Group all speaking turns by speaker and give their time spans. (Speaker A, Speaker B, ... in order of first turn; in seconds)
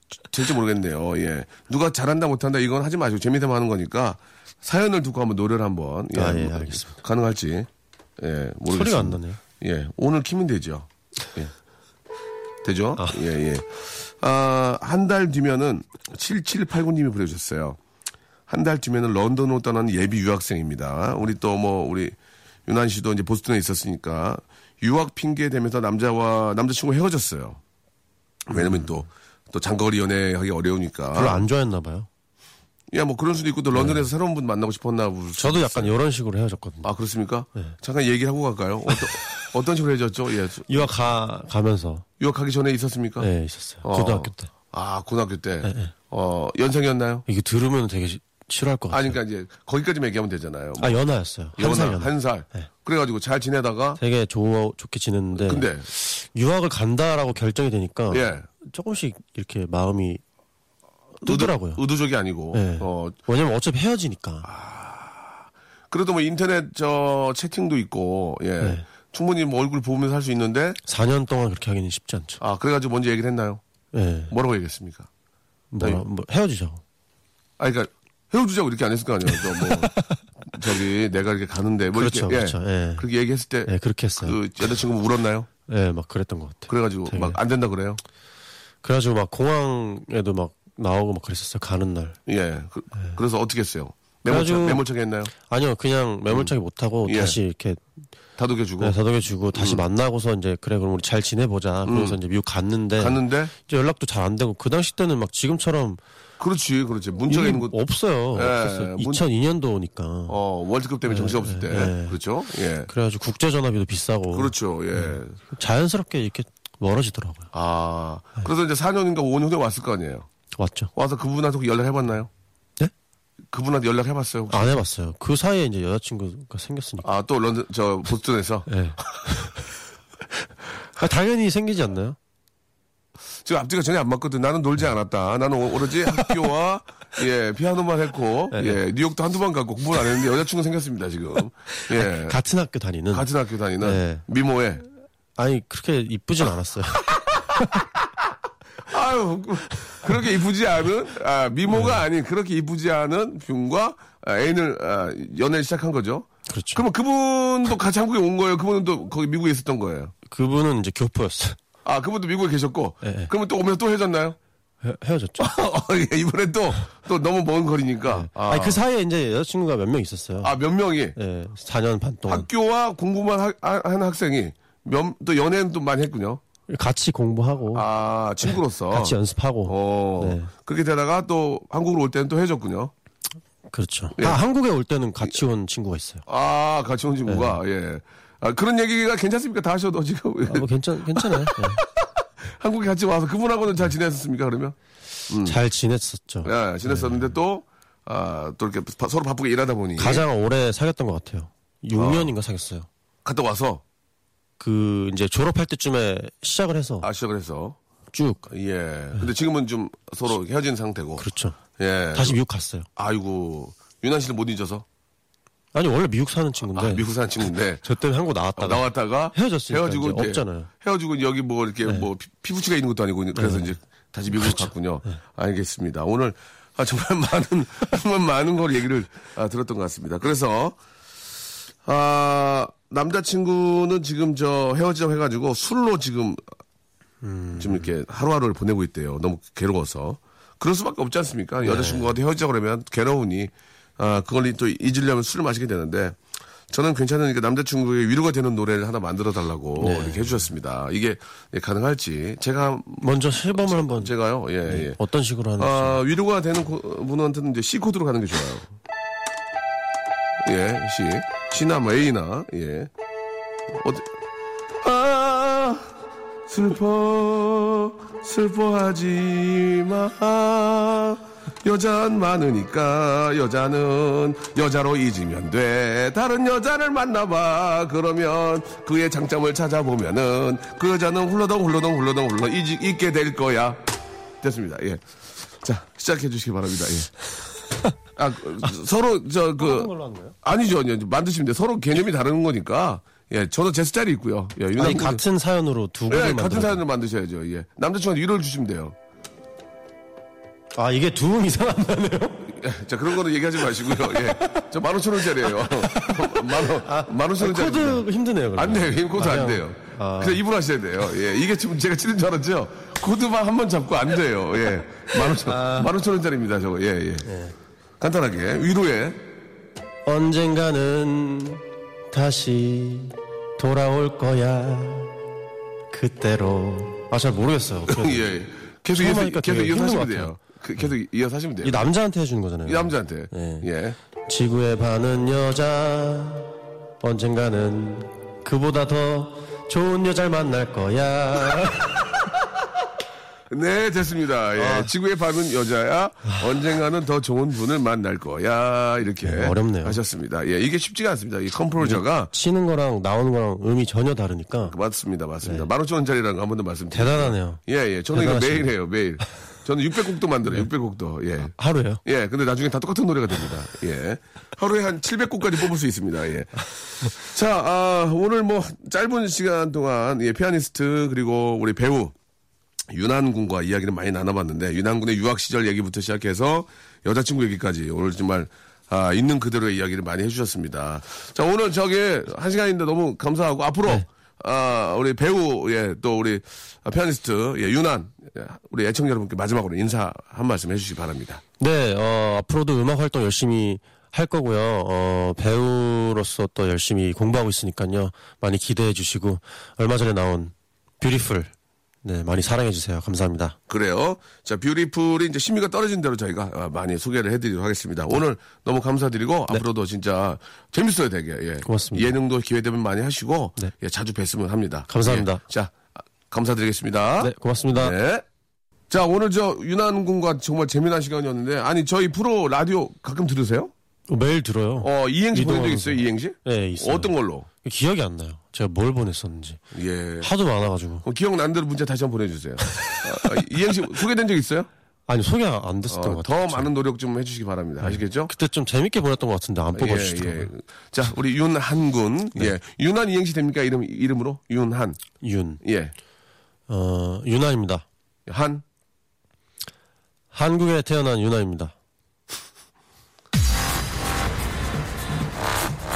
Speaker A: 0.3-11.5, 12.6-17.8, 18.5-22.2, 22.7-27.6, 28.5-31.4, 32.9-35.9, 36.8-40.9, 42.2-43.3, 43.8-47.3, 48.9-51.0, 51.6-54.0, 55.4-55.9, 58.1-58.5, 61.3-63.2, 64.4-70.8, 72.4-73.6, 74.3-75.1, 77.6-79.9, 80.5-85.5, 86.7-88.0, 92.3-95.3, 97.1-97.4, 98.4-99.0, 99.5-99.8, 101.9-102.2, 103.0-103.5, 106.4-107.8, 108.3-109.3, 110.3-112.9, 114.3-115.4, 117.5-120.3, 121.0-122.3, 123.5-124.7, 127.0-128.7, 133.4-142.4, 143.1-144.8, 148.8-160.1, 161.8-164.4, 165.4-168.8, 170.4-171.2, 172.3-176.4, 177.7-182.9, 184.2-184.4, 186.3-194.8, 195.3-195.6, 196.4-200.2, 201.9-202.3, 203.2-203.8, 207.0-207.8, 208.5-212.4, 213.0-214.8, 216.8-217.8, 218.6-230.8, 231.8-236.4, 237.6-246.2, 246.7-255.0, 255.6-258.7, 260.4-262.9, 263.7-264.1, 264.8-266.0, 266.5-283.8, 284.4-285.0, 285.6-287.1, 288.2-289.9, 290.4-295.2, 296.1-298.9, 302.5-308.1, 308.6-317.3, 318.0-319.3, 327.9-331.9, 332.7-334.0, 343.5-352.3, 354.6-361.5, 362.1-372.1, 372.9-391.4, 403.7-418.2, 418.9-423.7, 424.8-427.5, 429.7-430.3, 431.0-434.7, 435.9-438.3, 439.7-445.0, 445.6-445.9, 448.3-448.6
Speaker B: 6.1-7.0, 8.7-9.4, 31.1-32.1, 33.7-34.1, 35.4-36.9, 38.9-39.5, 40.7-42.0, 43.2-44.5, 45.6-45.9, 47.3-49.2, 50.8-52.7, 54.0-60.2, 61.2-61.8, 62.5-64.5, 68.6-68.9, 70.8-72.4, 73.9-74.3, 75.7-76.8, 79.4-80.2, 81.9-83.1, 83.7-84.8, 85.7-87.4, 88.8-92.2, 94.2-97.8, 98.8-106.0, 107.3-110.4, 111.0-112.2, 112.9-117.5, 120.5-120.9, 124.5-127.1, 128.7-129.7, 130.4-132.2, 138.5-138.8, 141.8-143.3, 143.8-144.2, 145.4-147.1, 151.7-152.0, 156.5-156.8, 160.3-161.6, 163.0-163.3, 164.8-165.5, 168.1-170.6, 171.2-172.5, 176.7-177.9, 178.4-180.5, 183.7-186.2, 187.3-187.6, 190.5-191.8, 195.4-197.2, 200.0-202.9, 204.6-207.1, 208.1-208.5, 211.2-211.6, 212.1-212.9, 215.7-220.7, 223.3-223.7, 224.3-225.2, 237.2-237.9, 241.7-242.1, 249.8-250.4, 253.0-254.1, 254.7-256.0, 289.6-290.4, 294.8-296.8, 300.8-302.5, 305.6-310.4, 315.4-315.9, 317.2-317.6, 320.1-325.1, 325.9-328.3, 328.9-330.3, 331.6-333.7, 334.2-342.1, 344.6-344.9, 349.2-350.0, 351.8-354.8, 356.9-357.6, 358.1-358.7, 361.5-362.0, 391.6-401.5, 402.0-403.6, 411.6-412.1, 414.9-415.4, 417.2-417.9, 424.1-429.6, 430.2-431.1, 435.1-436.7, 437.8-440.5, 445.2-445.6, 446.7-447.9, 450.3-451.7